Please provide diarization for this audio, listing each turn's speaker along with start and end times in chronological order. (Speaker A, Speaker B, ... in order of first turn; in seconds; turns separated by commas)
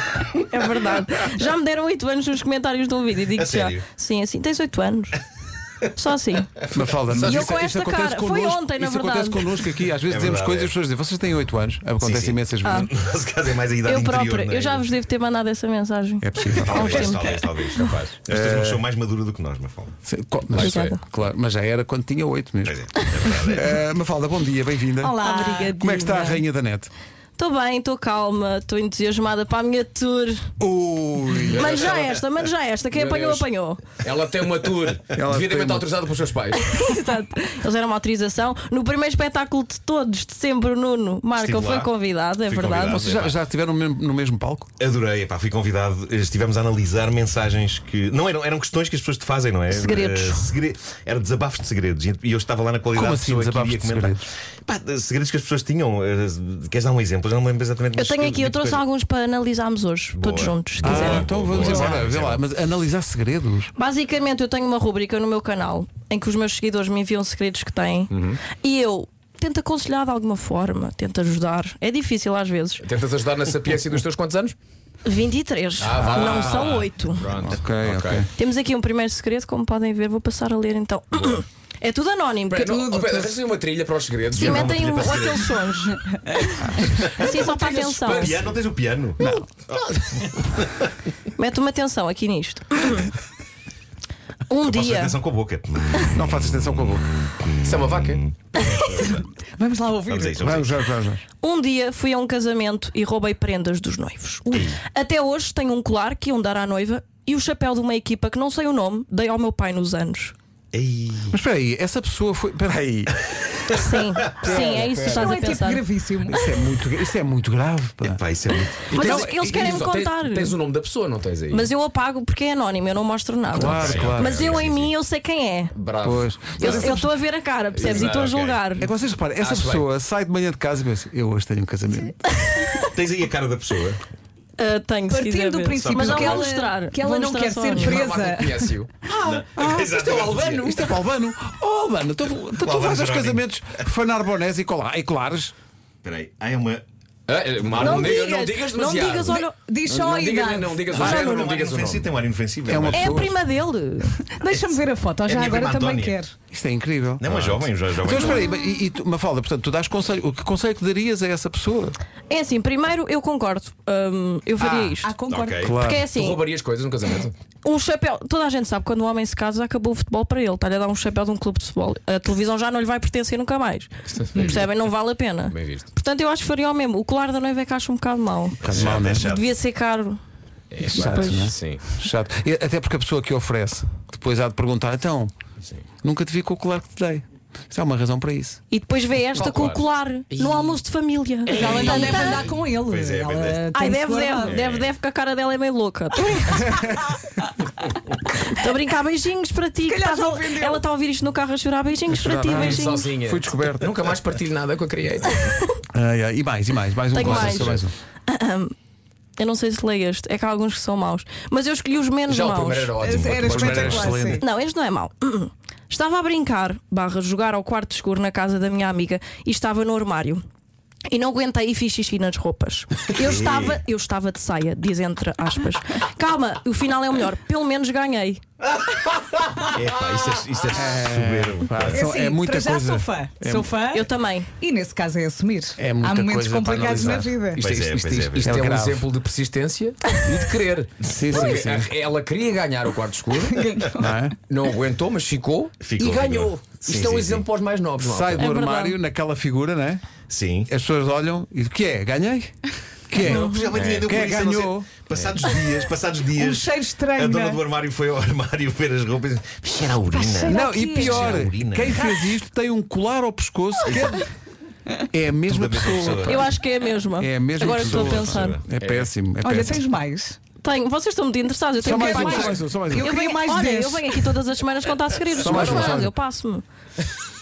Speaker A: 0.5-5.2, Speaker B: 3.3-3.8, Speaker A: 6.0-6.5, Speaker C: 6.7-12.9, Speaker D: 7.2-7.7, Speaker A: 7.3-9.5, Speaker B: 10.1-10.7, Speaker B: 12.0-14.9, Speaker A: 13.8-17.7, Speaker C: 16.2-17.3, Speaker B: 16.4-19.9, Speaker C: 18.3-18.8, Speaker C: 20.0-26.9, Speaker D: 20.5-20.9, Speaker A: 20.6-21.0, Speaker B: 22.6-23.7, Speaker E: 25.1-25.7, Speaker A: 25.1-26.4, Speaker A: 27.4-30.4, Speaker C: 30.6-31.7, Speaker D: 31.5-32.3, Speaker A: 31.6-33.8, Speaker D: 32.9-36.6, Speaker C: 35.1-35.9, Speaker A: 36.5-42.9, Speaker B: 41.3-41.9, Speaker B: 42.5-43.4, Speaker C: 42.8-44.7, Speaker B: 44.8-58.8, Speaker A: 49.7-50.5, Speaker C: 52.9-54.3, Speaker A: 58.0-61.9, Speaker B: 60.1-62.4, Speaker C: 60.8-63.7, Speaker A: 63.7-72.8, Speaker D: 68.1-68.4, Speaker D: 72.8-74.5, Speaker A: 75.0-77.3, Speaker D: 75.8-78.3, Speaker C: 76.0-76.8, Speaker C: 77.3-78.3, Speaker A: 78.3-82.8, Speaker D: 82.5-84.8, Speaker E: 82.6-83.4, Speaker B: 84.3-85.6, Speaker A: 84.6-85.9, Speaker D: 86.7-88.6, Speaker E: 86.9-87.9, Speaker A: 87.2-88.3, Speaker B: 88.0-90.8, Speaker A: 91.4-93.0, Speaker A: 94.5-95.2, Speaker B: 94.7-99.2, Speaker C: 96.1-97.1, Speaker D: 97.6-98.2, Speaker E: 99.6-100.4, Speaker B: 100.0-100.8, Speaker C: 100.4-101.2, Speaker A: 101.4-110.3, Speaker B: 104.5-104.8, Speaker B: 110.7-111.4, Speaker C: 111.3-113.8, Speaker B: 113.7-114.3, Speaker A: 113.8-115.8, Speaker C: 114.3-115.4, Speaker E: 114.7-116.4, Speaker C: 116.2-118.2, Speaker B: 118.0-118.8, Speaker D: 118.9-121.7, Speaker C: 118.9-119.8, Speaker A: 118.9-120.5, Speaker A: 121.5-125.7, Speaker C: 123.5-124.4, Speaker B: 123.6-124.9, Speaker D: 123.7-124.7, Speaker D: 125.7-127.1, Speaker C: 126.0-127.1, Speaker A: 126.6-128.8, Speaker B: 126.6-127.0, Speaker D: 127.8-128.3, Speaker B: 127.8-128.6, Speaker C: 128.8-132.2, Speaker D: 129.3-129.9, Speaker B: 132.9-134.0, Speaker A: 134.6-138.0, Speaker E: 135.1-138.7, Speaker B: 135.7-136.5, Speaker D: 137.7-140.9, Speaker B: 139.2-140.7, Speaker C: 139.6-139.9, Speaker C: 140.5-145.5, Speaker B: 142.6-143.5, Speaker B: 146.0-146.8, Speaker D: 147.3-152.1, Speaker B: 147.6-148.2, Speaker A: 147.8-149.5, Speaker E: 149.3-151.1, Speaker B: 150.9-153.3, Speaker A: 151.0-151.4, Speaker C: 152.7-153.3, Speaker A: 153.0-154.1, Speaker E: 154.1-156.3, Speaker B: 154.4-156.2, Speaker C: 156.5-161.9, Speaker B: 157.2-158.5, Speaker A: 162.3-165.1, Speaker C: 164.6-164.9, Speaker E: 164.9-165.7, Speaker B: 165.3-165.8, Speaker C: 165.6-166.1, Speaker A: 165.8-166.4, Speaker D: 166.0-167.3, Speaker A: 167.6-173.9, Speaker D: 174.1-174.7, Speaker A: 174.4-178.6, Speaker D: 175.5-175.8, Speaker B: 178.6-179.4, Speaker C: 178.6-179.4, Speaker A: 179.3-180.2, Speaker D: 180.7-181.8, Speaker C: 180.8-185.3, Speaker C: 186.0-188.6, Speaker A: 188.7-192.5, Speaker D: 189.3-190.8, Speaker E: 191.5-194.6, Speaker D: 191.6-192.3, Speaker B: 192.8-193.6, Speaker A: 193.7-196.5, Speaker B: 194.4-194.9, Speaker C: 196.5-197.0, Speaker A: 198.5-203.0, Speaker E: 199.8-200.8, Speaker C: 202.1-203.9, Speaker D: 202.5-205.5, Speaker C: 205.9-207.9, Speaker A: 207.1-207.6, Speaker B: 207.3-207.7, Speaker D: 207.4-207.8, Speaker A: 208.3-208.7, Speaker A: 209.4-213.0, Speaker D: 212.3-214.2, Speaker E: 212.9-214.4, Speaker C: 213.4-214.4, Speaker A: 214.4-220.4, Speaker A: 221.1-228.4, Speaker B: 223.1-223.8, Speaker B: 229.6-232.0, Speaker C: 230.7-233.9, Speaker E: 231.9-234.1, Speaker A: 233.9-234.5, Speaker E: 234.6-237.6, Speaker C: 235.8-239.1, Speaker B: 237.6-238.6, Speaker D: 238.3-243.8, Speaker C: 241.0-241.9, Speaker E: 243.4-244.2, Speaker C: 244.0-244.3, Speaker D: 244.5-248.5, Speaker B: 245.8-247.4, Speaker C: 248.0-250.1, Speaker A: 248.4-249.0, Speaker B: 250.3-250.7, Speaker C: 250.7-252.6, Speaker C: 253.1-254.9, Speaker B: 253.2-262.0, Speaker D: 253.7-254.1, Speaker E: 256.4-257.6, Speaker E: 260.1-261.4, Speaker C: 260.4-264.3, Speaker B: 263.9-264.2, Speaker C: 265.1-266.5, Speaker B: 265.4-266.5, Speaker A: 266.3-268.6, Speaker C: 267.2-269.8, Speaker B: 267.8-268.6, Speaker D: 268.8-269.1, Speaker E: 269.4-270.4, Speaker A: 270.6-272.4, Speaker C: 271.8-273.1, Speaker E: 271.9-274.4, Speaker A: 273.0-276.6, Speaker C: 275.3-276.1, Speaker D: 275.4-276.0